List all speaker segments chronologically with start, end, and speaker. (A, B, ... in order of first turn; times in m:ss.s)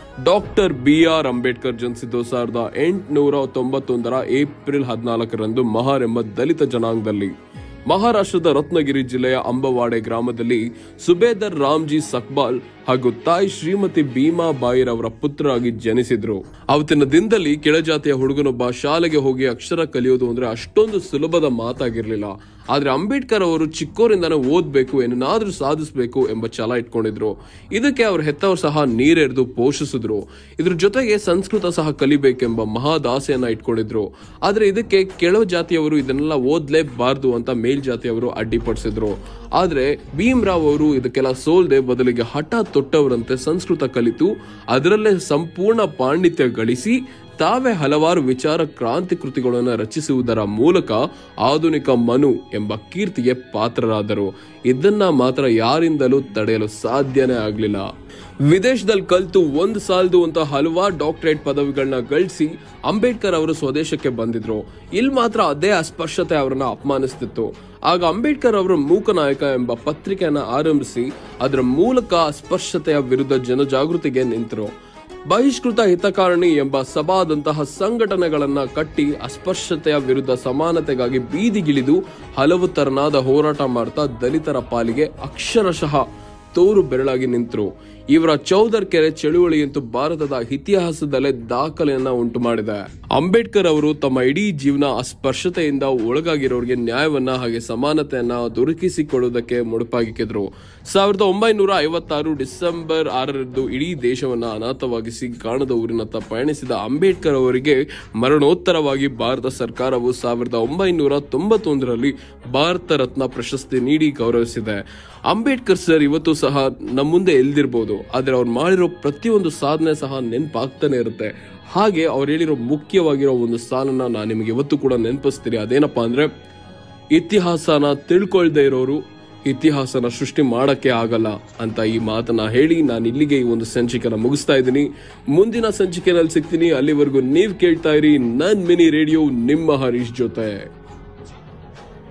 0:00.2-0:07.3 A
0:07.9-0:57.9 A
0:58.4-1:14.7 A
1:15.3-2:06.3 A
2:07.1-2:20.7 A